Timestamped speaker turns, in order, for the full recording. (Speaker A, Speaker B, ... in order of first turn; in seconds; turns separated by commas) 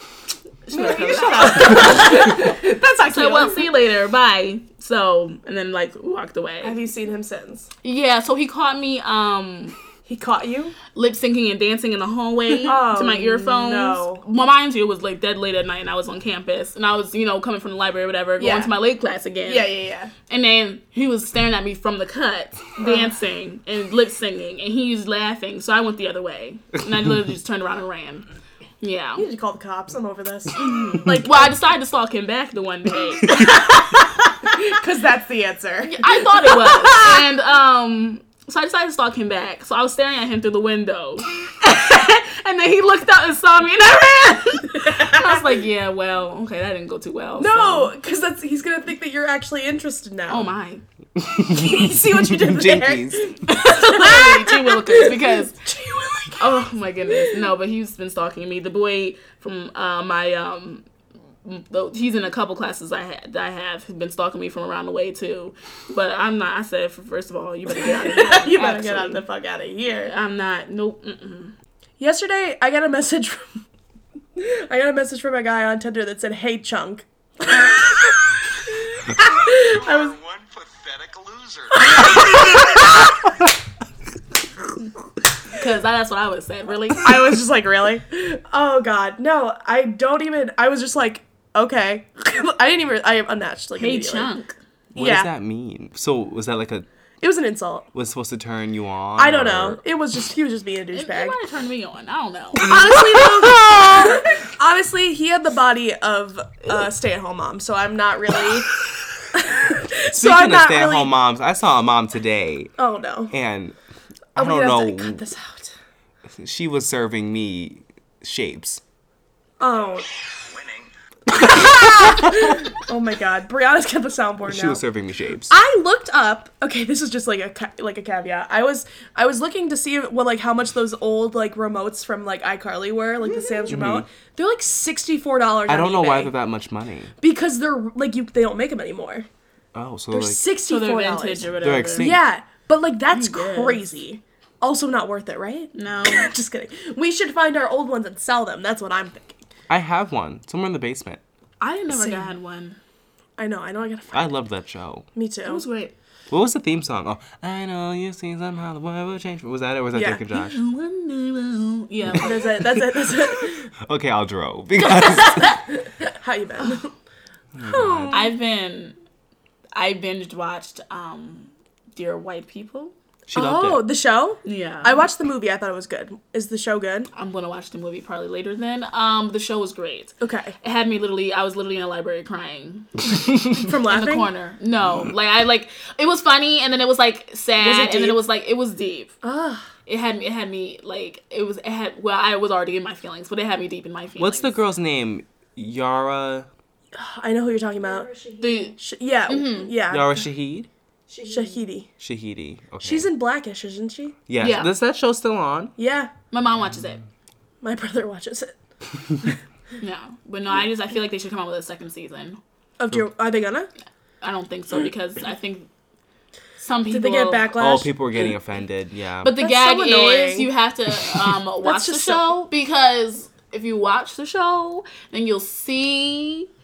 Speaker A: 0.7-6.8, Speaker B: 0.7-3.6, Speaker B: 6.6-7.7, Speaker A: 7.8-9.8, Speaker B: 10.1-10.8, Speaker A: 10.9-19.7, Speaker B: 12.6-14.2, Speaker B: 18.4-18.7, Speaker B: 19.4-20.1, Speaker A: 20.3-28.2, Speaker B: 22.8-23.1, Speaker A: 28.8-29.2, Speaker B: 29.1-31.6, Speaker A: 30.6-34.0, Speaker B: 34.5-37.2, Speaker A: 35.9-47.9, Speaker B: 47.4-50.5, Speaker A: 50.3-50.8, Speaker C: 51.2-53.3, Speaker B: 51.5-57.3, Speaker A: 53.5-55.6, Speaker A: 56.4-60.9, Speaker A: 61.4-69.2, Speaker B: 67.7-70.1, Speaker A: 70.0-71.5, Speaker B: 72.0-73.6, Speaker B: 74.4-78.3, Speaker B: 78.9-80.2, Speaker D: 80.3-81.6, Speaker B: 81.7-83.2, Speaker A: 85.5-87.4, Speaker B: 87.0-94.3, Speaker A: 93.8-94.6, Speaker C: 95.0-96.9, Speaker B: 95.0-95.3, Speaker B: 97.2-97.9, Speaker C: 97.9-99.8, Speaker B: 99.2-101.4, Speaker A: 100.9-104.1, Speaker B: 102.6-111.1, Speaker C: 110.1-112.7, Speaker B: 112.8-113.3, Speaker C: 113.3-113.8, Speaker C: 114.3-115.2, Speaker B: 114.4-115.7, Speaker C: 116.4-118.8, Speaker B: 119.6-120.1, Speaker B: 121.3-124.8, Speaker C: 124.4-125.5, Speaker B: 125.5-136.3, Speaker A: 133.3-133.7, Speaker C: 133.7-134.1, Speaker C: 135.7-137.1, Speaker B: 137.2-139.3, Speaker C: 139.7-140.4, Speaker B: 140.1-149.4, Speaker A: 140.7-142.1, Speaker C: 141.6-142.2, Speaker A: 143.1-143.8, Speaker A: 145.7-146.3, Speaker C: 149.7-151.2, Speaker A: 151.6-152.8, Speaker B: 151.9-152.3, Speaker B: 153.4-154.4, Speaker C: 154.1-155.1, Speaker B: 155.1-155.6, Speaker A: 155.5-155.9, Speaker C: 156.3-160.6, Speaker B: 159.9-160.2, Speaker A: 160.3-162.7, Speaker B: 162.2-163.7, Speaker C: 163.8-165.5, Speaker A: 164.8-165.7, Speaker B: 165.8-166.9, Speaker A: 166.6-166.9, Speaker C: 167.5-168.1, Speaker B: 167.6-168.3, Speaker A: 168.1-169.0, Speaker A: 169.8-172.9, Speaker C: 173.3-173.8, Speaker B: 173.3-177.1, Speaker A: 174.4-175.1, Speaker A: 177.1-182.9, Speaker B: 180.2-180.6, Speaker B: 183.5-184.3, Speaker A: 183.9-189.1, Speaker B: 187.6-188.2, Speaker B: 189.2-189.7, Speaker A: 189.9-194.6, Speaker C: 194.2-196.5, Speaker B: 196.9-198.1, Speaker D: 197.8-198.8, Speaker A: 198.4-198.8, Speaker B: 198.8-200.2, Speaker A: 199.3-199.7, Speaker C: 199.9-200.7, Speaker D: 201.1-201.6, Speaker B: 201.3-201.9, Speaker C: 202.0-203.1, Speaker B: 202.8-204.2, Speaker C: 204.3-205.7, Speaker A: 204.4-204.7, Speaker B: 205.8-206.1, Speaker A: 206.3-207.0, Speaker B: 207.6-208.5, Speaker A: 209.8-212.4, Speaker B: 212.8-213.7, Speaker A: 214.2-215.7, Speaker A: 216.6-217.5, Speaker B: 216.9-218.3, Speaker C: 217.6-219.3, Speaker A: 219.2-226.5, Speaker B: 219.4-220.5, Speaker B: 221.6-222.3